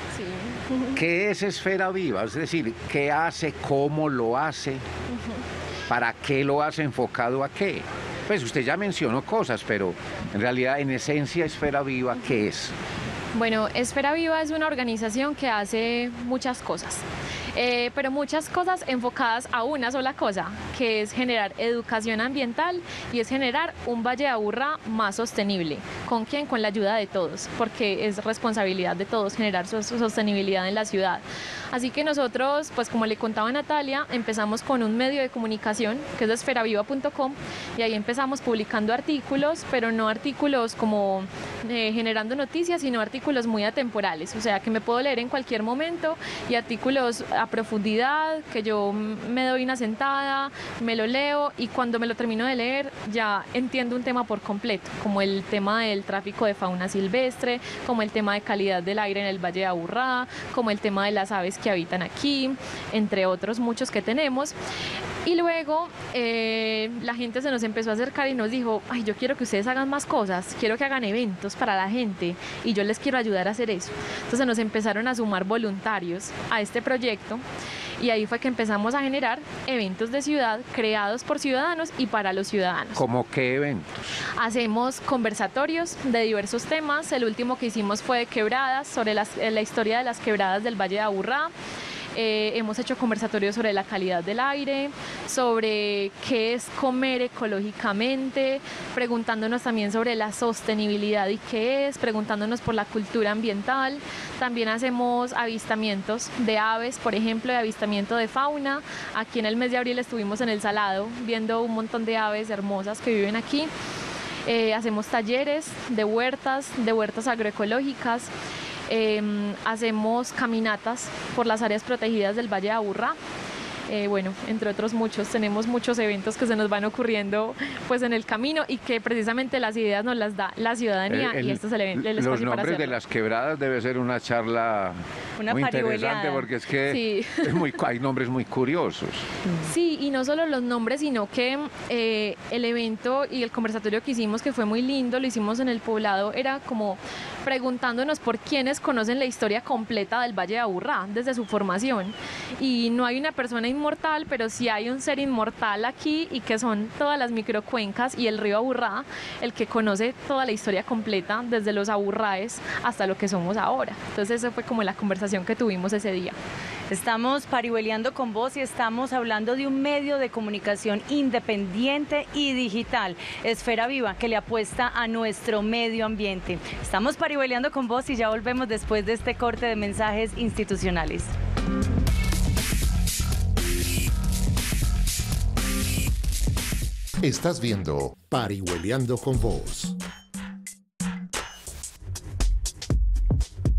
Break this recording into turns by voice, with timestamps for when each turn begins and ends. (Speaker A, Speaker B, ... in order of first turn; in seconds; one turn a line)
Speaker A: 0.2-0.9
Speaker B: 0.9-4.8
Speaker B: 5.9-12.8
Speaker A: 13.3-64.5
Speaker A: 65.2-77.4
Speaker A: 78.0-83.0
Speaker B: 83.0-84.2
Speaker A: 84.4-91.5
Speaker A: 92.2-113.7
Speaker A: 114.5-118.3
Speaker A: 118.9-123.2
Speaker A: 123.9-133.0
Speaker B: 131.1-135.0
Speaker C: 135.4-136.5
Speaker B: 135.5-139.3
Speaker A: 136.9-137.7
Speaker A: 139.7-166.4
Speaker C: 166.9-181.3
Speaker D: 187.2-190.0